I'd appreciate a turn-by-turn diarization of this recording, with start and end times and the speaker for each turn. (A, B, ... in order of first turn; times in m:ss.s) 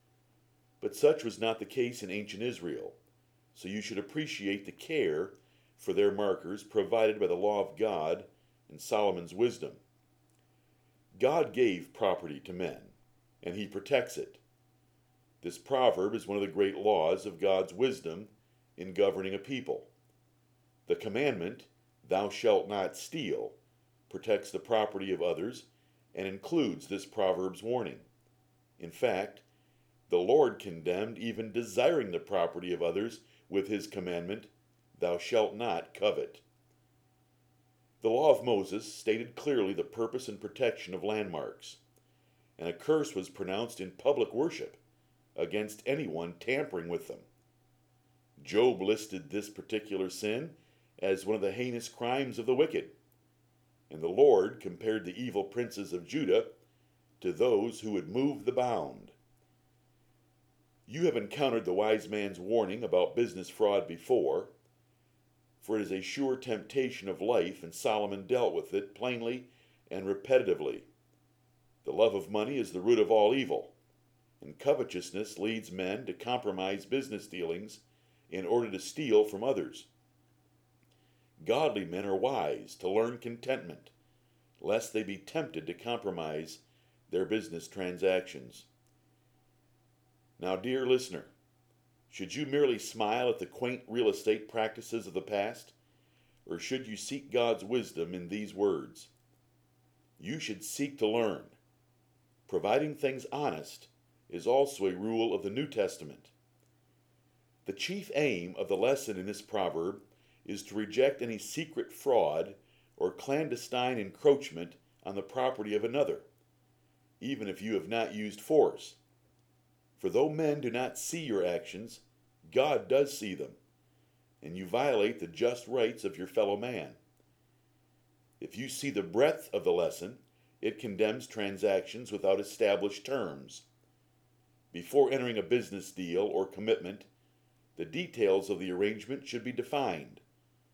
0:00.8-0:03.0 A
0:03.5-0:09.8 A
0:11.2-0:14.4 A
0:15.4-0:19.9 A
0:20.8-0:23.6 A
0:24.1-0:28.0 A
0:28.8-0:29.4 A
0:30.1-0:36.4 A
0:38.0-0:41.8 A
0:42.6-0:44.8 A
0:45.3-0:47.3 A
0:48.4-0:52.9 A
0:53.9-0:56.5 A
0:57.2-0:59.2 A
1:00.8-1:04.5 A
1:05.6-1:10.9 A
1:11.8-1:13.7 A
1:14.4-1:19.9 A
1:21.4-1:23.9 A
1:24.6-1:28.7 A
1:30.4-1:31.3 A
1:32.1-1:35.7 A
1:36.4-1:39.1 A
1:40.2-1:41.6 A
1:42.5-1:46.3 A
1:47.6-1:56.3 A
1:57.2-1:59.0 A
2:00.0-2:03.6 A
2:04.4-2:07.0 A
2:08.4-2:13.6 A
2:14.7-2:17.1 A
2:17.7-2:20.2 A